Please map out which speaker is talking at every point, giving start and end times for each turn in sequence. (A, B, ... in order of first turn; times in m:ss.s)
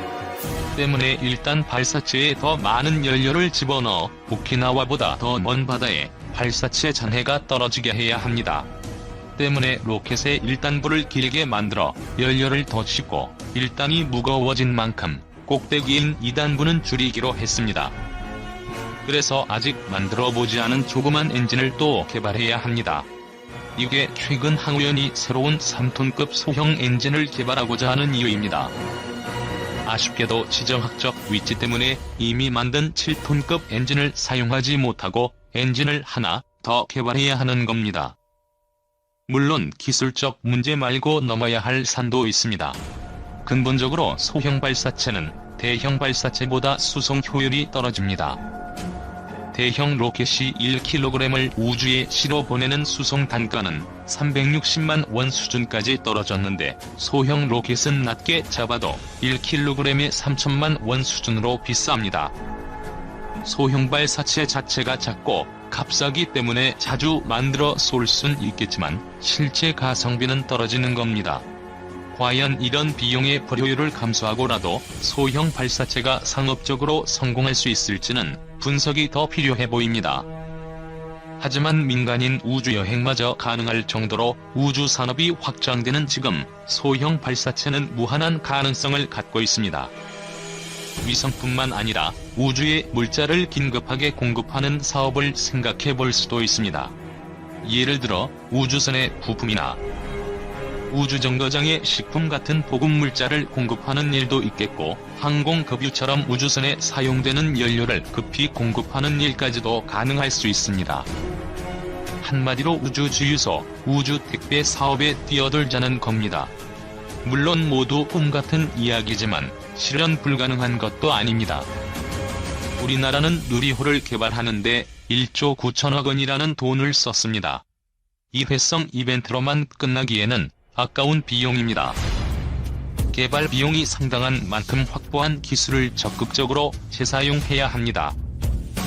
0:00.8-0:08.7 A
0:09.4-0:18.0 A
0:19.0-0:23.1 A
0:23.8-0:28.7 A
0:29.8-0:38.2 A
0:39.3-0:42.8 A
0:43.4-0:48.4 A
0:49.5-1:02.3 A
1:03.4-1:11.4 A
1:12.1-1:20.3 A
1:21.4-1:29.9 A
1:31.0-1:37.0 A
1:37.6-1:39.8 A
1:40.9-1:51.1 A
1:52.2-1:56.5 A
1:57.2-2:01.7 A
2:02.8-2:07.6 A
2:08.3-2:12.0 A
2:13.1-2:18.2 A